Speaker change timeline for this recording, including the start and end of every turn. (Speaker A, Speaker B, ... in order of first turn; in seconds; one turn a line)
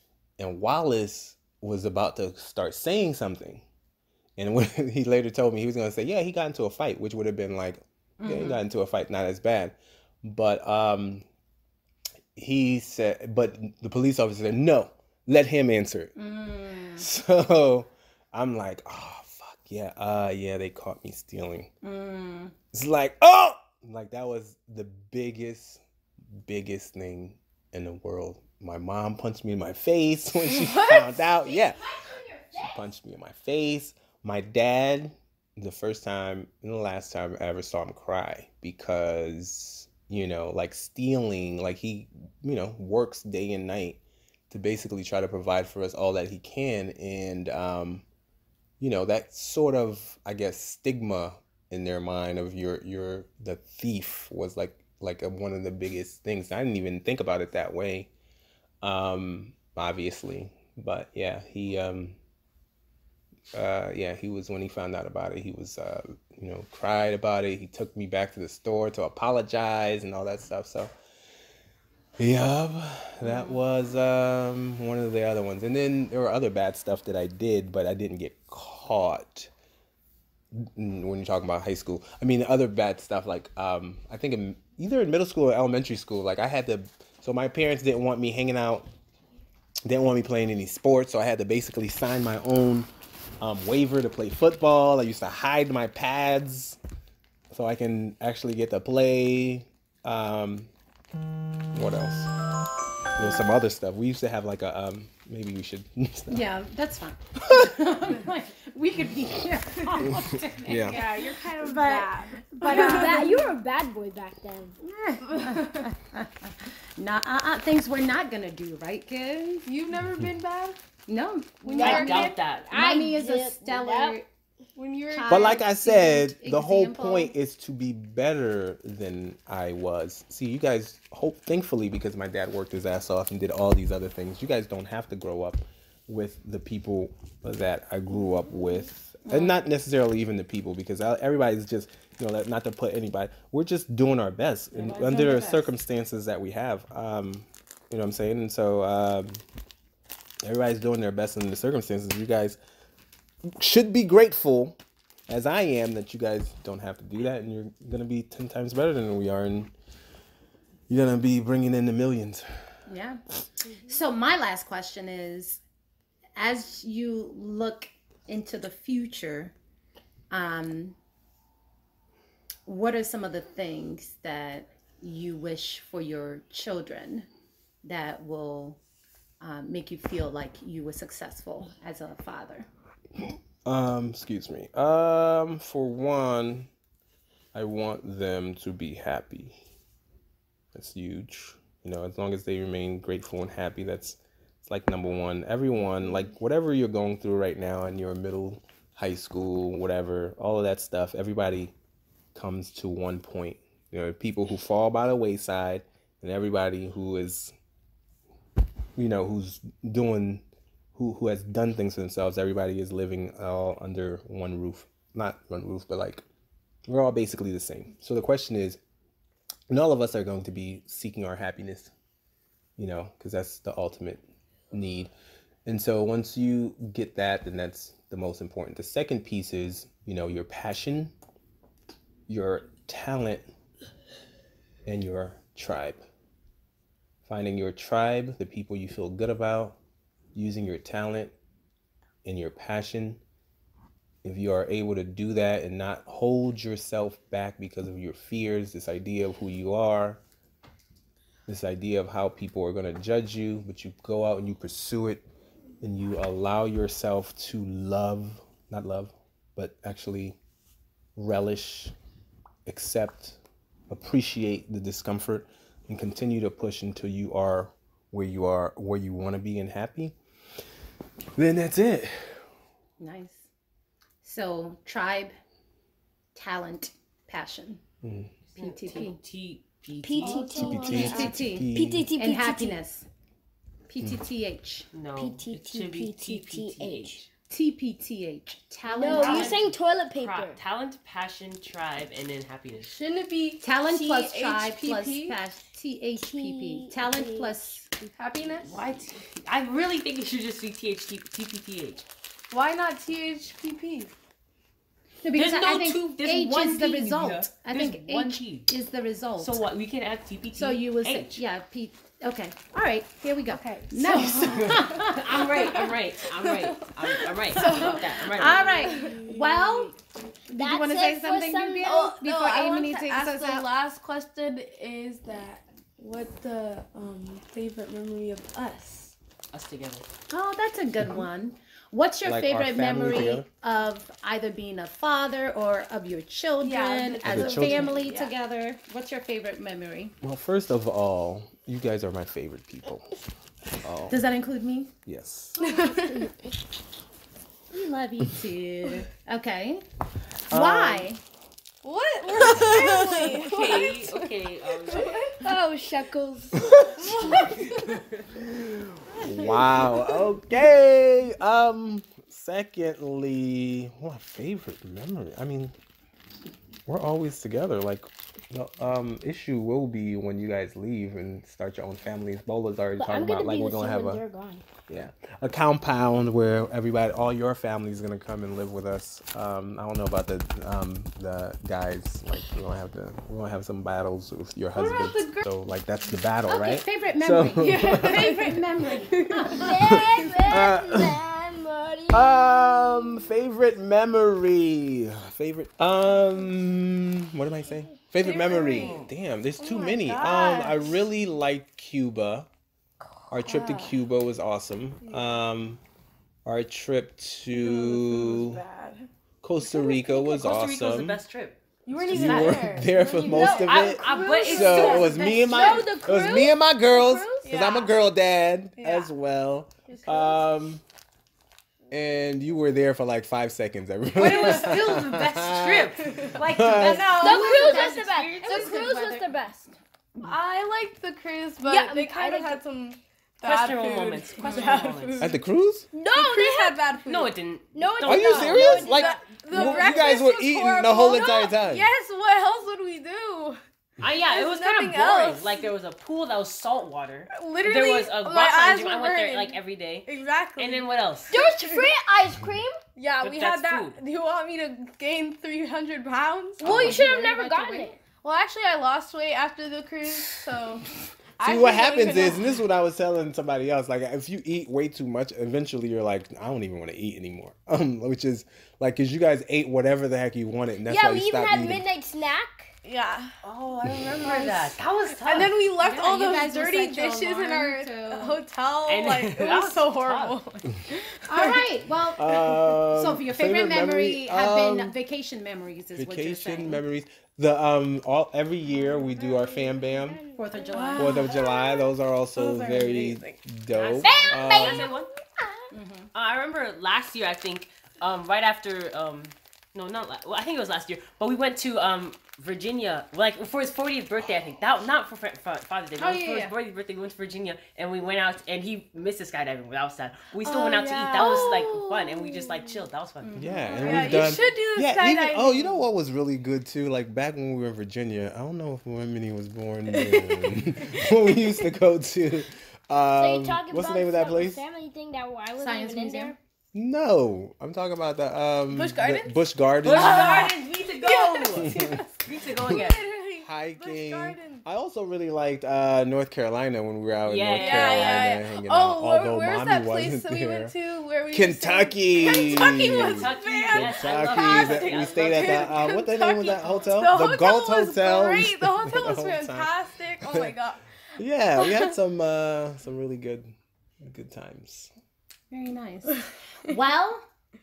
Speaker A: 0.4-3.6
Speaker A: 4.4-11.2
Speaker B: 8.2-8.6
Speaker A: 12.3-16.1
Speaker B: 16.2-17.1
Speaker A: 17.0-21.7
Speaker B: 21.8-22.5
Speaker A: 22.7-31.9
Speaker C: 30.6-31.0
Speaker D: 31.4-32.8
Speaker A: 32.5-48.0
Speaker A: 48.8-58.1
Speaker A: 58.8-62.2
Speaker A: 63.5-70.9
Speaker A: 72.2-79.5
Speaker B: 73.2-73.6
Speaker A: 80.5-88.9
Speaker A: 89.8-92.9
Speaker A: 93.4-96.8
Speaker A: 97.5-100.7
Speaker A: 101.7-102.3
Speaker A: 103.2-106.4
Speaker B: 103.2-103.5
Speaker B: 106.3-111.2
Speaker A: 107.4-107.7
Speaker A: 110.1-111.0
Speaker C: 110.9-113.4
Speaker D: 111.5-114.8
Speaker B: 112.5-113.4
Speaker B: 114.8-119.6
Speaker C: 115.3-115.9
Speaker C: 119.6-120.8
Speaker B: 121.1-124.2
Speaker C: 121.6-122.3
Speaker D: 121.7-124.2
Speaker E: 121.8-122.7
Speaker C: 124.8-125.6
Speaker B: 125.1-127.3
Speaker A: 125.3-149.4
Speaker B: 139.3-139.6
Speaker B: 144.7-145.7
Speaker A: 150.4-152.6
Speaker A: 153.6-154.8
Speaker A: 155.3-159.7
Speaker A: 160.9-162.7
Speaker B: 162.9-163.2
Speaker B: 163.8-165.6
Speaker B: 166.3-169.5
Speaker B: 170.3-170.9
Speaker B: 172.7-177.3
Speaker B: 177.8-178.8
Speaker B: 179.4-182.7
Speaker A: 183.6-186.7
Speaker A: 187.5-189.6
Speaker A: 190.7-201.7
Speaker A: 202.3-207.5
Speaker A: 208.9-210.4
Speaker A: 210.9-216.2
Speaker A: 216.9-218.8
Speaker A: 219.7-221.9
Speaker A: 222.8-225.1
Speaker A: 225.7-231.1
Speaker A: 232.3-233.5
Speaker A: 234.8-236.0
Speaker A: 237.2-239.8
Speaker A: 240.3-241.3
Speaker A: 242.2-243.2
Speaker A: 244.2-250.2
Speaker A: 251.5-255.2
Speaker A: 255.8-260.4
Speaker A: 261.1-261.9
Speaker A: 262.6-263.4
Speaker A: 263.9-270.1
Speaker A: 271.4-272.4
Speaker B: 273.0-273.5
Speaker B: 274.2-275.4
Speaker B: 276.3-277.8
Speaker A: 278.0-278.3
Speaker B: 278.5-279.2
Speaker E: 278.5-280.7
Speaker D: 280.0-282.8
Speaker C: 280.2-281.4
Speaker A: 280.5-282.1
Speaker B: 281.0-283.1
Speaker B: 283.9-284.9
Speaker E: 284.9-287.3
Speaker D: 285.1-287.2
Speaker B: 287.5-289.6
Speaker D: 288.9-290.6
Speaker E: 289.0-293.0
Speaker C: 292.8-295.4
Speaker B: 293.6-297.9
Speaker D: 296.1-298.1
Speaker C: 298.1-298.8
Speaker E: 298.6-302.0
Speaker C: 302.5-304.1
Speaker B: 305.2-309.6
Speaker E: 305.3-308.7
Speaker E: 309.4-311.4
Speaker B: 310.5-315.9
Speaker C: 313.5-319.3
Speaker E: 314.3-319.1
Speaker B: 317.5-319.9
Speaker D: 319.2-319.9
Speaker B: 320.5-323.7
Speaker D: 320.5-322.0
Speaker C: 321.8-329.1
Speaker E: 329.5-330.1
Speaker B: 330.3-340.1
Speaker A: 332.2-333.5
Speaker C: 336.6-338.3
Speaker A: 337.2-337.9
Speaker A: 340.2-343.2
Speaker A: 343.8-344.2
Speaker B: 344.1-344.9
Speaker A: 345.1-345.6
Speaker C: 345.6-346.3
Speaker B: 347.7-349.8
Speaker A: 350.5-351.1
Speaker B: 350.5-351.2
Speaker C: 351.8-355.8
Speaker B: 352.4-353.2
Speaker E: 352.9-355.3
Speaker D: 355.4-356.7
Speaker A: 356.6-357.1
Speaker C: 356.6-358.0
Speaker E: 357.3-358.3
Speaker A: 359.1-365.7
Speaker B: 359.1-359.6
Speaker A: 366.9-374.2
Speaker D: 373.0-374.6
Speaker A: 374.9-388.3
Speaker B: 384.8-385.4
Speaker B: 386.5-390.0
Speaker C: 387.6-390.6
Speaker D: 389.5-393.3
Speaker A: 389.8-391.2
Speaker A: 392.1-402.5
Speaker C: 398.2-399.1
Speaker E: 398.6-399.1
Speaker C: 399.6-401.0
Speaker C: 403.2-403.9
Speaker A: 403.3-405.8
Speaker C: 405.0-405.4
Speaker A: 406.4-408.6
Speaker C: 407.6-409.1
Speaker A: 409.4-411.2
Speaker E: 410.0-415.1
Speaker C: 411.9-415.1
Speaker A: 411.9-420.8
Speaker D: 413.3-417.4
Speaker B: 414.0-415.9
Speaker C: 417.4-417.9
Speaker C: 418.8-419.1
Speaker C: 419.9-420.4
Speaker A: 421.9-427.1
Speaker E: 424.1-428.9
Speaker C: 424.2-424.8
Speaker C: 426.0-427.6
Speaker B: 426.4-429.3
Speaker D: 427.0-429.7
Speaker C: 430.2-435.4
Speaker D: 431.6-432.6
Speaker E: 433.4-435.4
Speaker B: 434.4-434.8
Speaker A: 435.2-435.9
Speaker D: 435.9-436.8
Speaker C: 436.0-437.3
Speaker E: 437.1-438.8
Speaker D: 437.7-440.0
Speaker A: 438.0-441.9
Speaker C: 438.4-443.6
Speaker E: 444.0-451.4
Speaker C: 444.1-445.7
Speaker C: 447.3-451.9
Speaker D: 451.3-452.8
Speaker C: 452.9-457.0
Speaker E: 453.2-454.0
Speaker B: 456.6-458.0
Speaker D: 456.6-458.0
Speaker C: 458.1-460.9
Speaker C: 461.4-462.6
Speaker A: 461.4-471.8
Speaker D: 470.8-472.7
Speaker C: 472.8-473.3
Speaker E: 473.4-475.6
Speaker C: 474.2-474.7
Speaker C: 475.2-481.6
Speaker B: 475.8-478.4
Speaker E: 478.9-480.4
Speaker B: 481.2-486.8
Speaker A: 482.2-484.9
Speaker A: 485.9-490.2
Speaker D: 488.7-491.0
Speaker B: 490.3-491.4
Speaker C: 490.7-493.4
Speaker A: 491.0-494.9
Speaker E: 493.7-495.1
Speaker D: 494.0-495.7
Speaker B: 495.7-496.1
Speaker E: 496.1-514.3
Speaker C: 506.0-506.3
Speaker C: 510.4-512.8
Speaker B: 513.2-514.3
Speaker A: 513.4-524.6
Speaker C: 513.8-515.8
Speaker C: 519.9-521.4
Speaker D: 523.1-526.4
Speaker B: 525.6-526.4
Speaker A: 526.7-530.4
Speaker C: 528.7-534.6
Speaker E: 529.8-533.0
Speaker A: 531.6-532.0
Speaker A: 533.4-540.7
Speaker E: 537.2-538.4
Speaker C: 537.5-550.9
Speaker A: 541.3-550.5
Speaker E: 542.8-545.8
Speaker A: 551.1-554.9
Speaker C: 551.6-551.9
Speaker B: 555.5-557.2